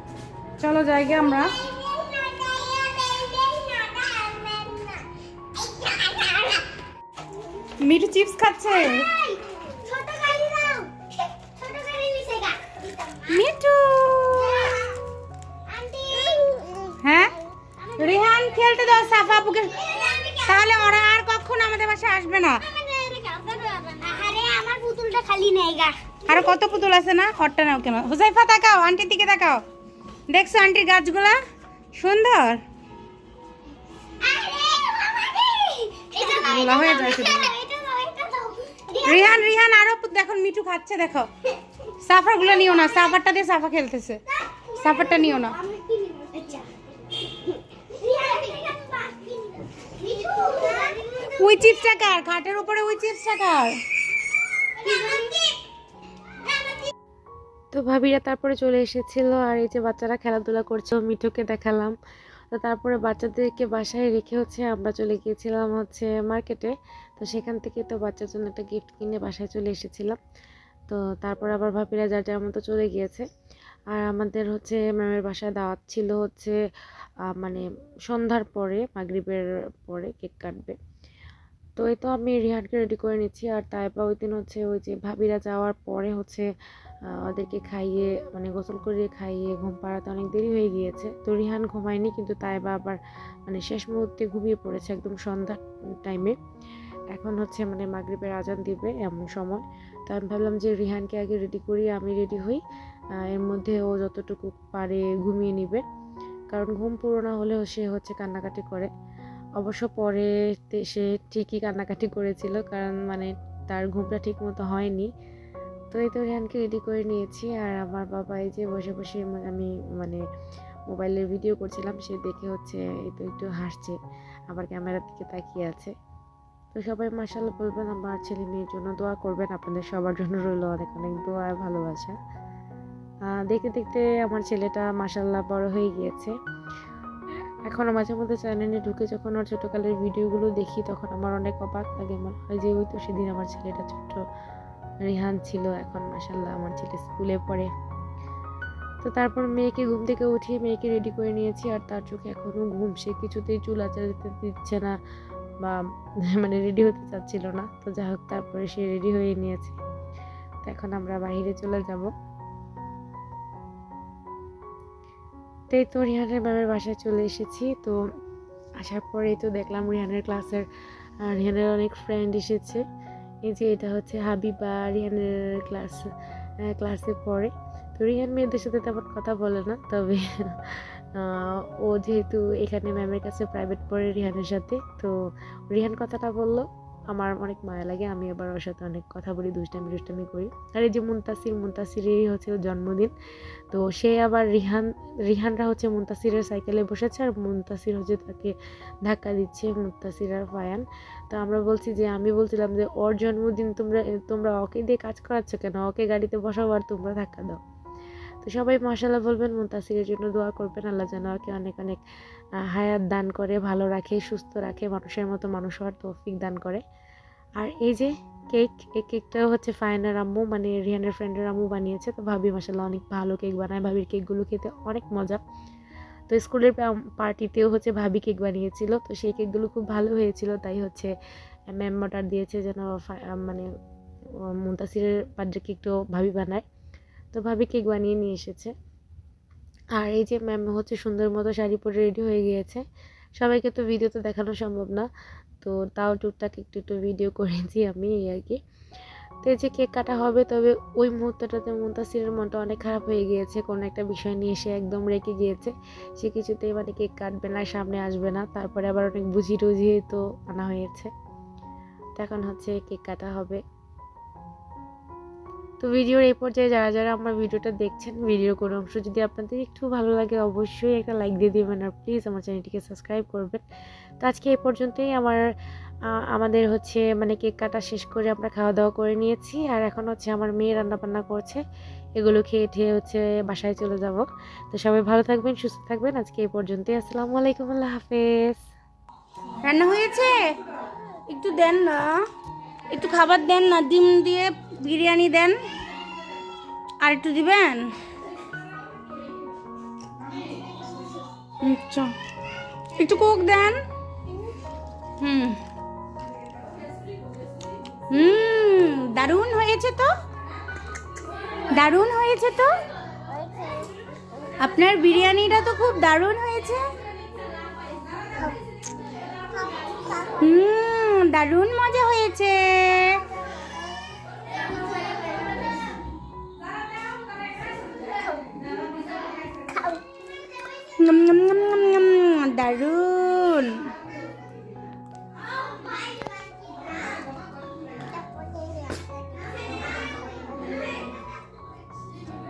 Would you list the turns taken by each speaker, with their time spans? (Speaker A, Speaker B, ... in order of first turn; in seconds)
Speaker A: 0.6-1.5, 7.8-9.1, 13.3-14.7, 17.0-17.4, 18.0-19.8, 20.4-22.6, 26.2-29.6, 30.3-31.4, 31.9-32.6, 36.2-37.5, 39.0-41.3, 42.0-44.2, 44.8-45.6, 51.4-53.8, 289.6-290.5, 291.3-292.2, 292.9-295.6, 297.0-297.9, 301.6-302.1, 302.9-303.8, 305.2-305.6, 308.1-310.1, 311.7-312.7, 314.6-316.9, 320.4-323.2, 331.0-333.9
Speaker B: 1.3-6.7, 8.7-13.4, 14.3-14.9, 15.7-21.1, 22.6-26.6, 34.2-39.5, 42.4-43.2, 44.3-46.7, 47.5-52.0, 54.7-55.6, 56.3-56.9, 313.2-314.5, 319.5-320.5, 329.5-330.1, 335.4-341.2
Speaker C: 57.7-61.9, 62.5-70.2, 70.9-73.3, 73.9-76.6, 77.3-80.8, 81.8-86.5, 87.1-96.4, 97.1-102.6, 103.2-105.8, 106.5-108.9, 109.6-115.1, 115.9-120.2, 120.9-124.0, 124.5-125.9, 126.7-132.2, 133.3-136.3, 137.7-144.2, 145.0-147.7, 149.0-154.9, 156.3-159.8, 160.6-162.1, 165.7-168.0, 168.8-170.7, 171.2-172.8, 173.4-176.1, 176.6-185.1, 185.7-193.1, 193.7-198.5, 199.0-207.6, 208.4-212.0, 212.6-216.8, 217.6-225.4, 226.3-231.1, 231.7-233.7, 234.6-236.6, 237.3-238.7, 239.9-242.8, 243.4-245.1, 245.6-248.6, 249.4-261.1, 262.2-263.6, 265.8-273.6, 274.2-275.4, 276.1-281.6, 282.2-288.6